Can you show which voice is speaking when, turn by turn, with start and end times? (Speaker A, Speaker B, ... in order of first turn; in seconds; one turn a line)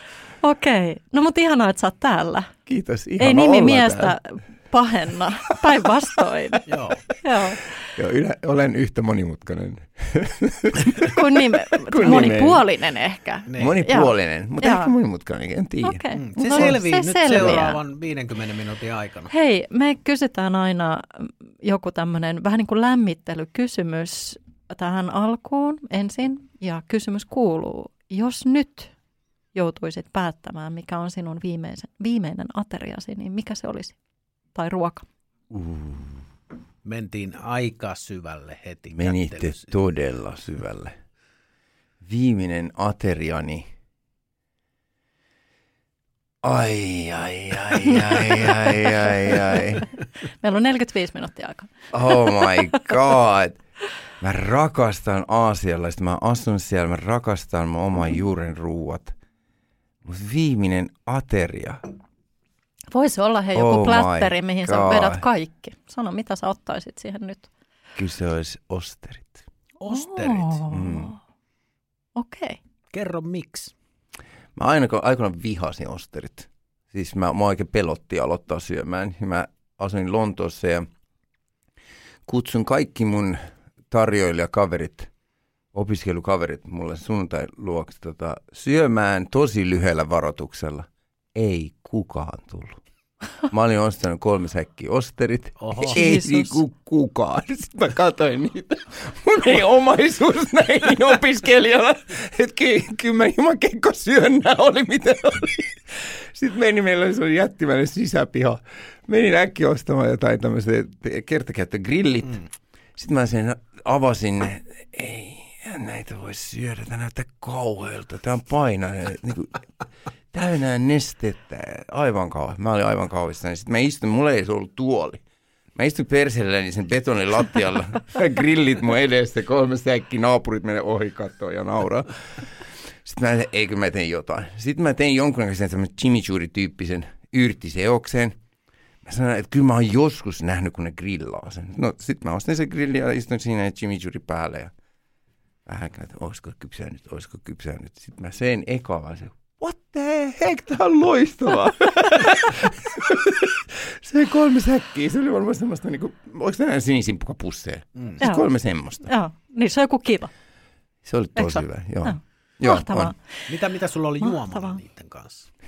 Speaker A: 0.4-2.5
Speaker B: 2.6-4.1
Speaker A: 3.2-7.8
Speaker C: 6.7-7.0
Speaker B: 7.9-12.6
Speaker A: 11.0-14.9
Speaker C: 13.5-13.8
Speaker B: 13.6-16.8
Speaker A: 15.8-17.8
Speaker C: 16.1-19.3
Speaker B: 17.3-17.7
Speaker A: 19.3-28.9
Speaker A: 29.5-34.0
Speaker A: 34.5-35.0
Speaker B: 35.5-36.2
Speaker C: 36.8-39.7
Speaker B: 38.9-41.0
Speaker B: 42.0-43.7
Speaker B: 46.4-49.9
Speaker A: 48.7-49.6
Speaker A: 50.2-52.8
Speaker B: 51.9-53.6
Speaker B: 54.2-59.1
Speaker B: 60.0-61.8
Speaker A: 62.9-67.5
Speaker B: 63.5-65.2
Speaker B: 68.0-69.4
Speaker C: 69.8-70.6
Speaker A: 69.8-71.2
Speaker B: 70.7-71.1
Speaker A: 72.1-72.6
Speaker C: 72.9-73.7
Speaker B: 74.5-80.9
Speaker B: 82.3-85.1
Speaker B: 85.7-92.8
Speaker B: 93.5-119.6
Speaker C: 95.6-96.0
Speaker A: 95.9-96.6
Speaker B: 120.3-125.2
Speaker B: 125.7-138.3
Speaker B: 139.0-144.7
Speaker B: 145.7-159.1
Speaker C: 157.9-158.2
Speaker A: 158.2-158.5
Speaker A: 159.1-160.3
Speaker B: 161.0-163.1
Speaker A: 161.4-163.5
Speaker C: 163.5-165.5
Speaker A: 164.2-164.8